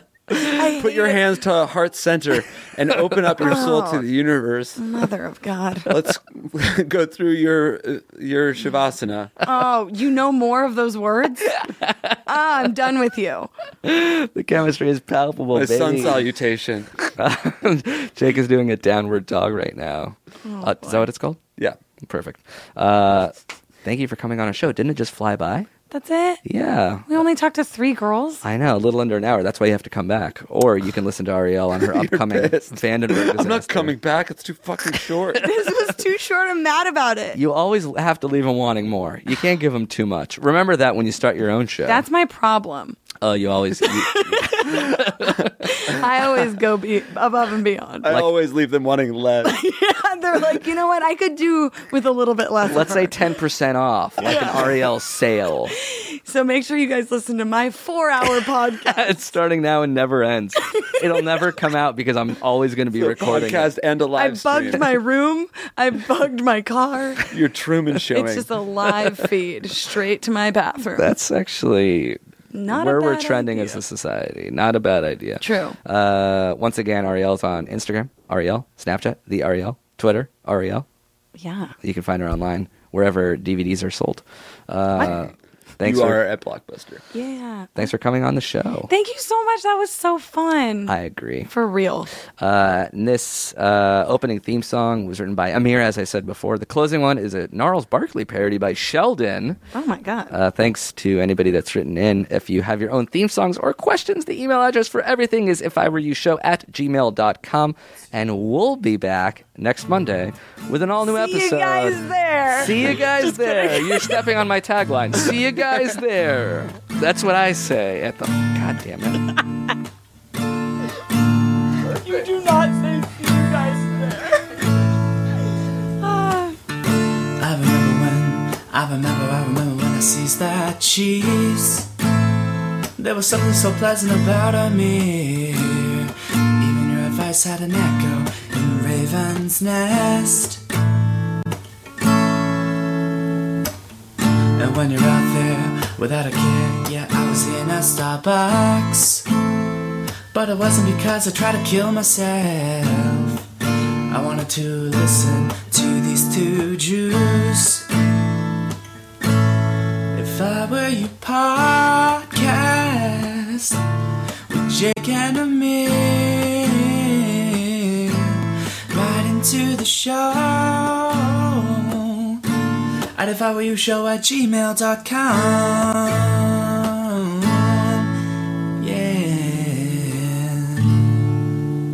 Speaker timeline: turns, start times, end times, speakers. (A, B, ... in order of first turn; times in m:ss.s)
0:00.4-0:01.2 A
0:00.7-0:04.8 B
0:03.4-0:04.0 A
0:04.8-0:05.9 A
0:05.9-0:09.3 B
0:09.4-0:11.6 A
0:11.6-0:12.2 C
0:12.2-0:13.5 A
0:13.8-0:16.2 C
0:15.5-0:16.9 B
0:17.2-0:21.4 C
0:20.4-0:21.1 A
0:22.0-0:25.7 C
0:25.9-0:26.4 A
0:26.4-0:27.2 C
0:27.1-0:28.4 A
0:28.4-0:33.9 C
0:31.8-0:35.4 B
0:35.4-0:37.4 A
0:37.3-0:42.0 C
0:41.8-0:43.0 A
0:43.2-0:45.5 C
0:43.8-0:48.1 A
0:48.0-0:49.5 B
0:49.4-0:53.1 A
0:52.6-0:55.7 C
0:54.2-0:54.7 A
0:55.8-0:59.2 A
0:58.8-1:03.7 C
1:02.9-1:04.9 B
1:04.2-1:07.3 A
1:07.3-1:08.5 B
1:08.1-1:11.1 A
1:11.0-1:12.2 C
1:12.5-1:13.8 A
1:12.7-1:20.8 C
1:15.4-1:15.8 A
1:21.4-1:21.7 A
1:21.8-1:26.2 C
1:25.8-1:27.0 B
1:27.1-1:27.9 A
1:27.8-1:28.9 C
1:28.9-1:30.9 A
1:30.9-1:31.5 C
1:31.5-1:32.1 A
1:32.4-1:39.6 C
1:39.7-1:40.3 A
1:40.3-1:52.0 C
1:51.0-1:54.2 A
1:52.5-1:59.3 C
2:01.8-2:04.6 A
2:06.0-2:06.6 A
2:07.4-2:11.9 D
2:13.0-2:20.6 D
2:24.6-2:29.2 D
2:30.3-2:33.4 D
2:34.1-2:37.8 D
2:40.1-2:43.8 D
2:44.5-2:52.4 D
2:53.1-2:58.1 D
2:58.8-3:00.9 D